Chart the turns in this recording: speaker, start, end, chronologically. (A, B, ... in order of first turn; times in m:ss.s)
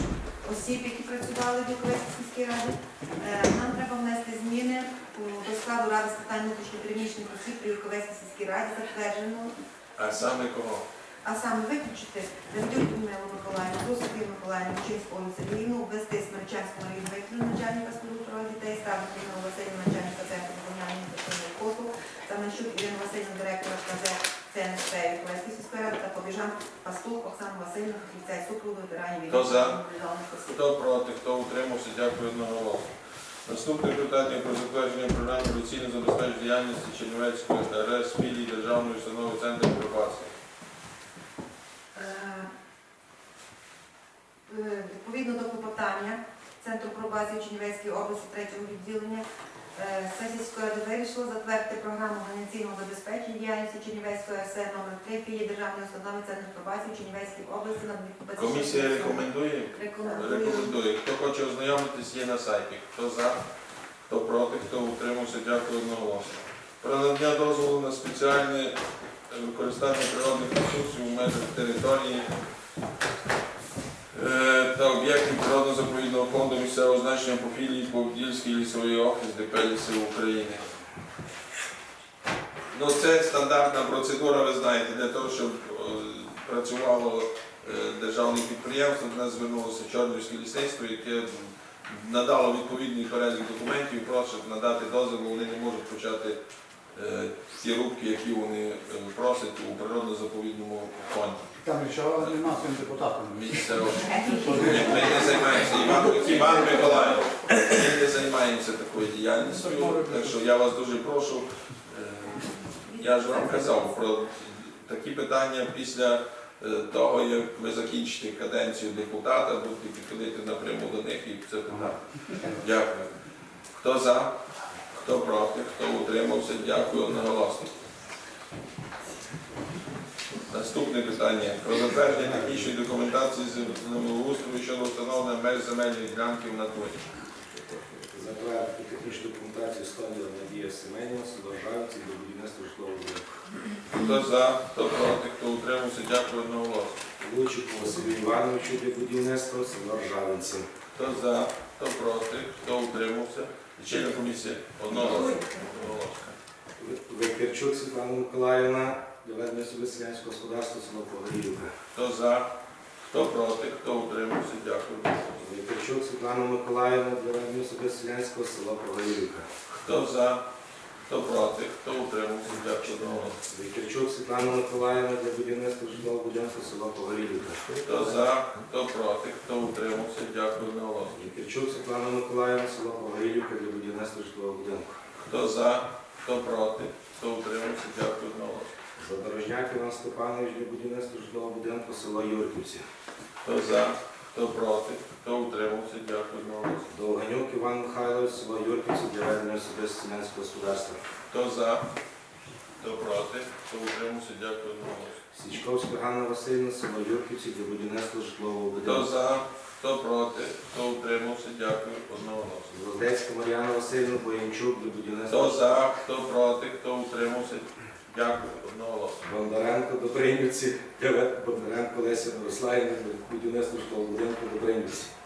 0:00.4-0:09.6 A
0:10.0-0:10.9 B
0:11.2-0:30.6 A
0:29.3-0:29.8 B
0:30.5-0:32.9 B
0:33.5-0:40.3 B
0:42.0-0:42.5 A
0:44.5-1:00.8 A
0:58.4-1:03.4 B
1:04.1-1:08.8 B
1:09.3-1:12.3 B
1:14.1-1:20.6 B
1:22.7-1:36.4 B
1:36.9-1:41.5 B
1:41.6-1:43.8 C
1:42.2-1:42.5 B
1:43.3-2:03.1 B
1:44.0-1:45.1 A
1:44.4-1:45.1 C
1:46.1-1:46.9 C
1:49.5-1:50.3 C
1:52.9-1:53.8 A
2:03.7-2:04.4 B
2:04.9-2:07.8 B
2:10.5-2:17.0 B
2:12.2-2:12.7 D
2:18.1-2:23.4 D
2:23.9-2:27.0 B
2:27.2-2:30.7 D
2:31.0-2:36.4 B
2:36.8-2:41.7 D
2:41.9-2:42.5 B
2:43.0-2:45.4 B
2:45.4-2:49.4 D
2:49.8-2:50.4 B
2:51.1-2:53.4 B
2:53.4-2:57.7 D
2:57.8-3:01.2 B
3:01.1-3:05.0 D
3:05.2-3:08.7 B
3:09.0-3:12.8 D
3:13.4-3:16.9 B
3:16.9-3:21.0 D
3:21.3-3:21.8 B
3:22.8-3:25.2 B
3:25.3-3:29.1 D
3:28.8-3:32.7 B
3:32.7-3:35.8 D
3:35.3-3:39.2 B
3:39.2-3:45.1 D